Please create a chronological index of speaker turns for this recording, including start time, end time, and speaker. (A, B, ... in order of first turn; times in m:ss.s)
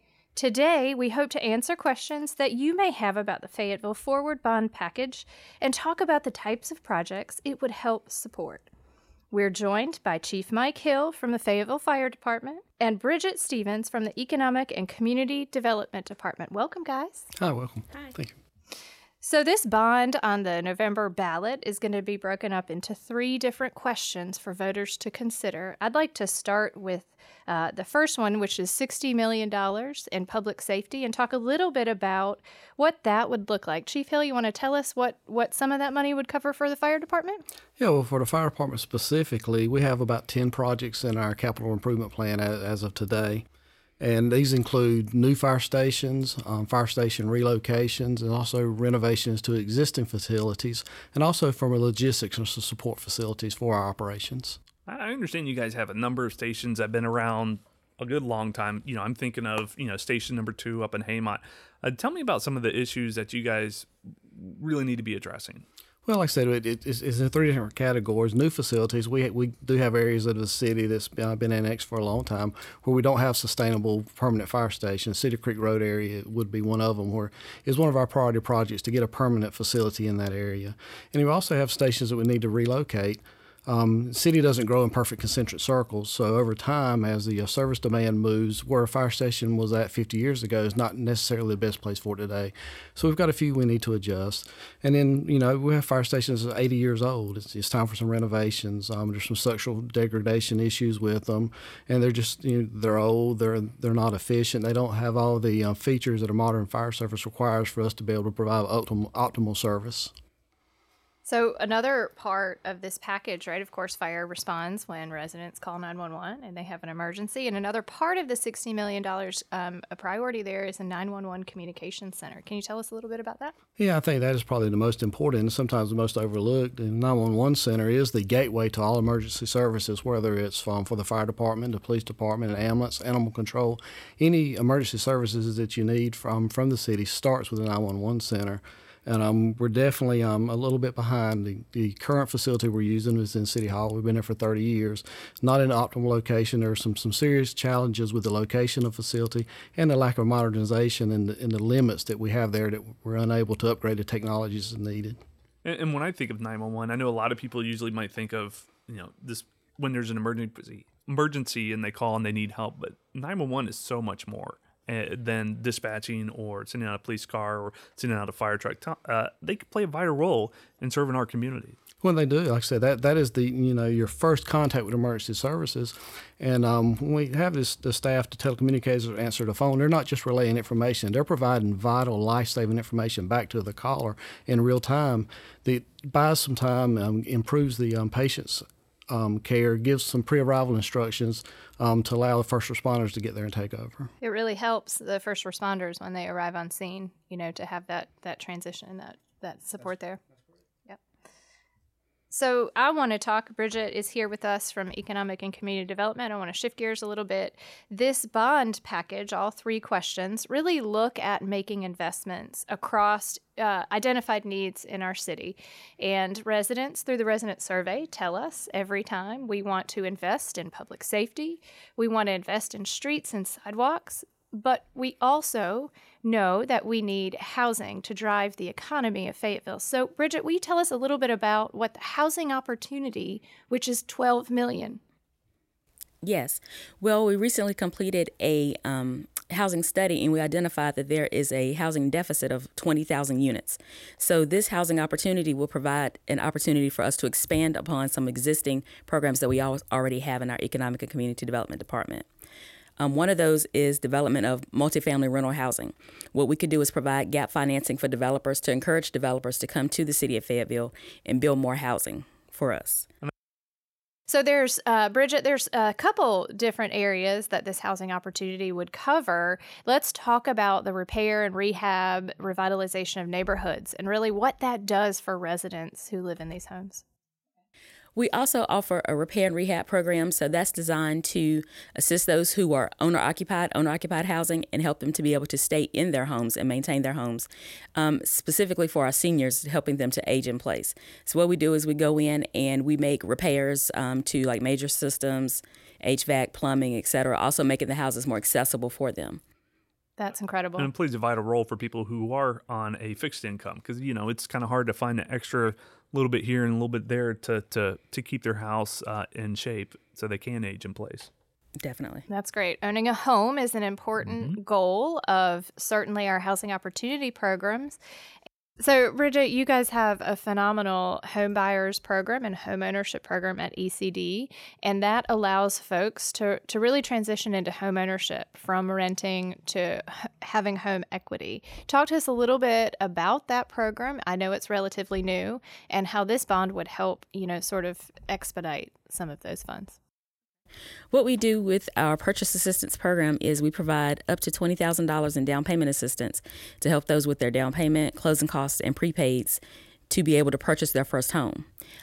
0:00.3-0:08.7 A
0:09.3-0:17.3 A
0:17.4-0:18.4 B
0:19.2-0:37.4 A
0:37.8-0:43.4 B
0:44.0-0:54.6 B
0:54.9-1:05.6 C
1:06.0-1:50.1 B
1:51.2-2:03.5 A
2:03.8-2:35.2 B
2:35.6-2:51.8 C
2:52.0-3:14.1 B
3:14.2-3:20.2 A
3:22.3-3:55.0 A
3:56.2-4:12.2 D
4:13.0-4:23.1 D
4:24.3-4:37.0 A
4:38.1-4:59.4 D
5:00.2-5:00.9 A
5:00.8-5:11.3 C
5:11.8-5:12.2 D
5:12.3-5:18.0 A
5:14.2-5:14.6 C
5:18.8-5:40.0 A
5:41.1-5:51.7 D